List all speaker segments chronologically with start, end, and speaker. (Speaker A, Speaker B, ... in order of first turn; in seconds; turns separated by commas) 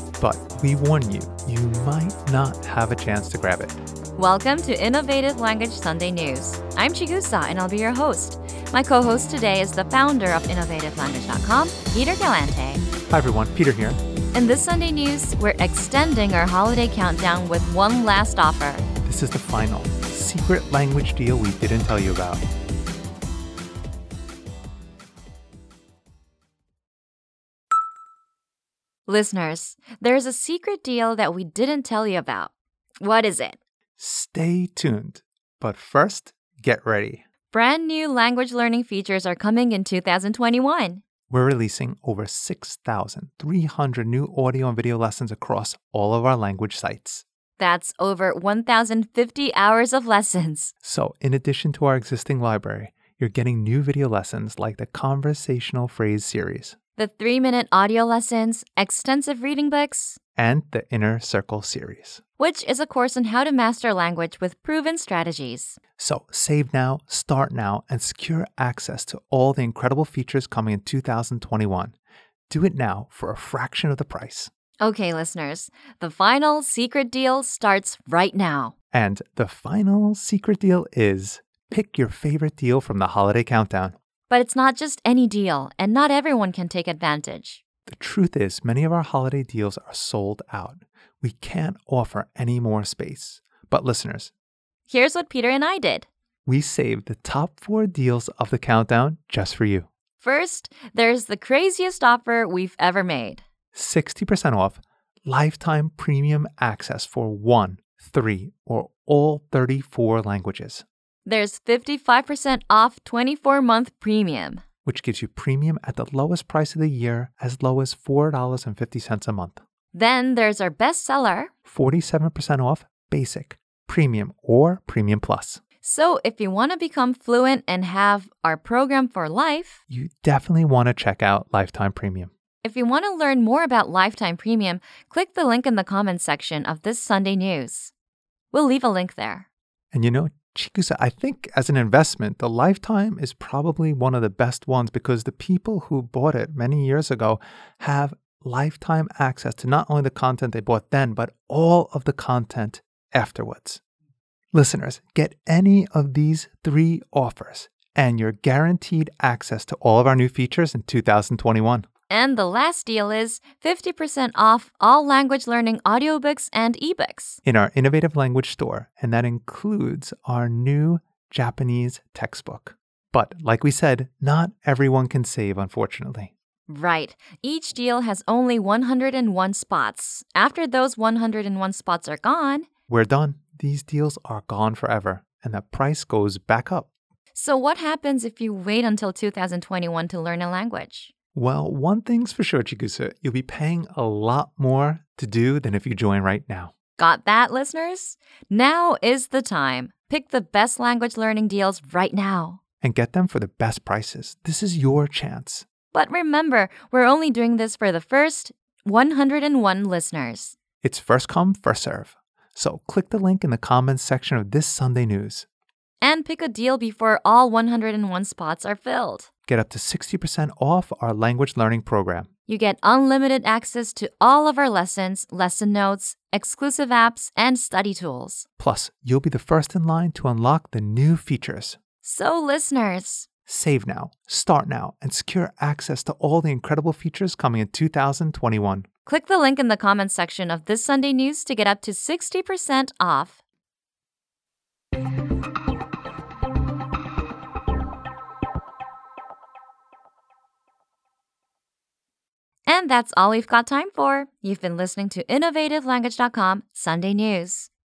Speaker A: 0.2-3.8, Speaker B: 4.2-12.8, Speaker A: 13.1-14.0, Speaker B: 14.3-18.8, Speaker A: 19.0-22.4, Speaker B: 29.1-33.6, Speaker A: 34.0-37.2, Speaker B: 37.5-41.0, Speaker A: 41.3-47.2, Speaker B: 47.6-50.7, Speaker A: 50.8-56.8, Speaker B: 57.0-60.2, Speaker A: 60.4-62.2, Speaker B: 62.4-65.8, Speaker A: 66.0-71.9, Speaker A: 72.5-74.5, Speaker B: 74.8-78.7, Speaker A: 78.9-83.9, Speaker B: 84.3-87.6, Speaker A: 87.8-94.3, Speaker B: 94.9-96.1, Speaker A: 96.5-99.9, Speaker B: 100.2-103.4, Speaker A: 103.7-110.8, Speaker B: 111.2-114.6, Speaker A: 114.8-119.6, Speaker B: 119.9-121.5, Speaker A: 121.7-125.6, Speaker B: 125.8-129.8, Speaker A: 129.9-132.3, Speaker B: 132.6-137.9, Speaker B: 138.5-139.5, Speaker A: 139.9-153.8, Speaker A: 154.5-161.8, Speaker B: 162.1-167.4, Speaker A: 167.4-176.3, Speaker B: 176.7-182.7, Speaker A: 182.9-186.9, Speaker B: 187.3-191.1, Speaker A: 191.3-196.7, Speaker B: 197.0-202.6, Speaker A: 202.8-205.7, Speaker B: 205.9-210.5, Speaker A: 210.8-215.5, Speaker B: 216.0-219.3, Speaker A: 219.5-222.3, Speaker B: 222.5-228.4, Speaker A: 228.6-231.8, Speaker B: 232.0-233.3, Speaker A: 233.5-238.9, Speaker B: 239.1-243.4, Speaker B: 252.7-257.7